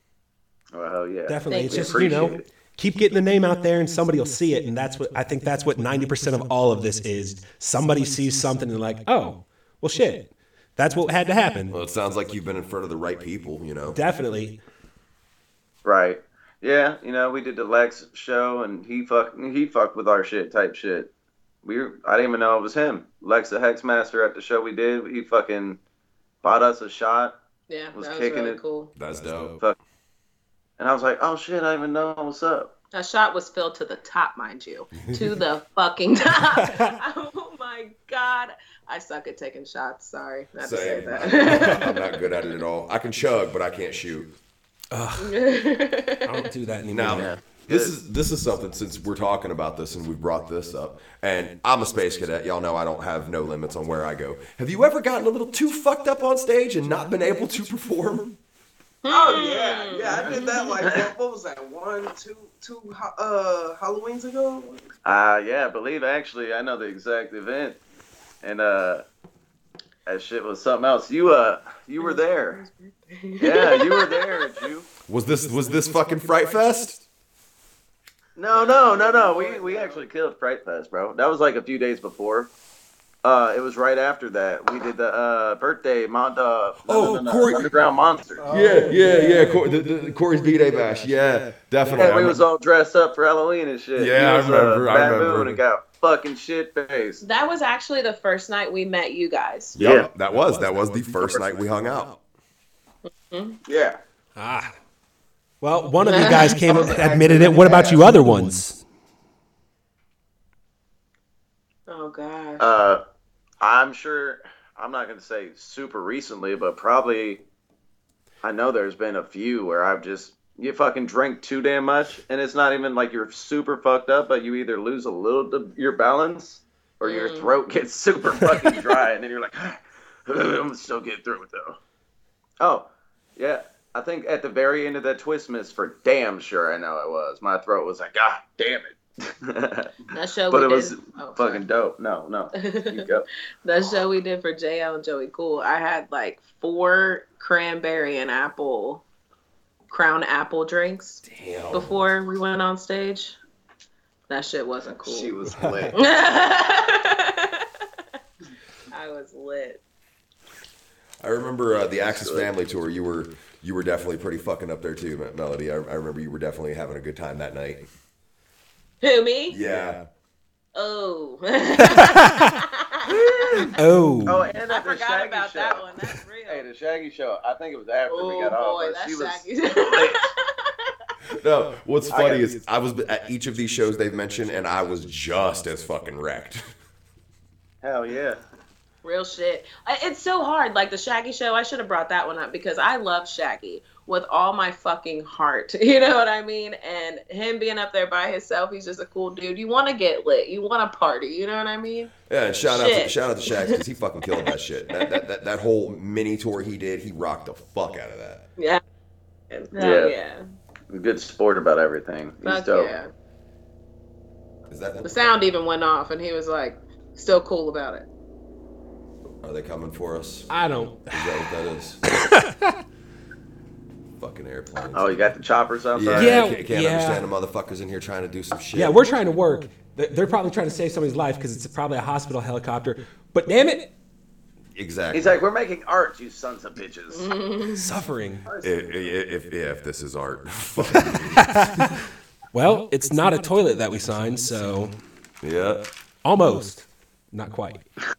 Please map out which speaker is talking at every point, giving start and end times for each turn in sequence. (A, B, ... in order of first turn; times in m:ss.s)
0:00.7-0:02.4 A
0:01.3-0:11.8 B
0:01.5-0:02.0 C
0:11.7-0:14.0 D
0:13.9-0:14.6 B
0:15.8-0:21.1 A
0:21.6-0:25.8 A
0:26.4-0:27.4 A
0:27.7-0:28.9 C
0:27.9-0:28.6 A
0:29.0-0:29.6 D
0:30.8-0:32.7 A
0:32.9-0:42.2 C
0:40.6-0:44.3 D
0:44.9-0:45.4 B
0:45.2-0:46.4 C
0:46.2-0:47.3 B
0:46.9-0:58.4 D
0:47.1-0:48.0 A
0:59.0-1:00.8 C
0:59.1-1:04.8 E
1:00.8-1:01.1 A
1:05.0-1:07.8 A
1:08.4-1:09.0 A
1:10.0-1:12.6 A
1:12.0-1:14.6 C
1:13.4-1:14.9 A
1:15.1-1:17.0 D
1:18.4-1:22.5 A
1:18.5-1:19.9 C
1:18.9-1:19.8 E
1:23.2-1:28.4 A
1:26.8-1:27.7 D
1:28.4-1:28.8 E
1:28.5-1:32.4 D
1:28.7-1:29.3 B
1:28.8-1:29.5 C
1:31.9-1:37.2 A
1:34.0-1:35.6 D
1:37.2-1:39.8 C
1:39.8-1:42.2 D
1:39.8-1:40.1 A
1:43.3-1:43.6 C
1:43.6-1:44.0 E
1:44.4-1:44.7 B
1:45.6-1:48.8 B
1:46.0-1:46.9 C
1:46.7-1:48.1 E
1:51.9-1:52.6 C
1:52.6-1:53.0 A
1:53.6-1:57.4 A
1:58.4-2:11.8 A
2:07.0-2:07.5 C
2:12.6-2:19.9 A
2:20.1-2:21.6 C
2:20.5-2:23.2 A
2:22.6-2:23.1 C
2:23.6-2:29.0 C
2:29.9-2:33.4 C
2:31.2-2:32.0 D
2:34.3-2:35.4 C
2:35.0-2:36.0 E
2:35.9-2:37.7 C
2:38.9-2:39.8 C
2:41.2-2:47.9 D
2:42.1-2:42.5 A
2:49.0-2:49.6 C
2:49.5-2:50.1 D
2:50.7-2:53.7 C
2:53.7-2:54.4 B
2:54.2-2:55.8 A
2:54.7-2:56.6 C
2:56.5-3:00.3 A
2:58.1-3:00.9 C
3:01.3-3:06.7 D
3:02.1-3:02.4 A
3:07.8-3:08.4 A
3:09.0-3:22.1 C
3:22.3-3:28.4 D
3:22.7-3:23.8 C
3:24.4-3:25.1 C
3:29.5-3:30.4 C
3:29.7-3:30.1 A
3:30.9-3:32.9 A
3:32.4-3:33.1 C
3:34.7-3:35.2 D
3:35.0-3:38.0 C
3:39.4-3:40.5 D
3:40.5-3:41.4 B
3:41.1-3:42.0 D
3:42.1-3:42.8 B
3:44.2-3:45.3 D
3:44.9-3:46.4 A
3:45.9-3:49.0 D
3:46.1-3:47.2 B
3:48.7-3:53.9 B
3:54.7-3:55.4 D
3:55.1-3:57.3 A
3:57.1-3:57.9 C
3:57.7-3:58.4 B
3:58.6-4:01.6 D
4:01.4-4:02.0 B
4:02.5-4:04.9 B
4:05.4-4:05.9 D
4:06.2-4:07.8 B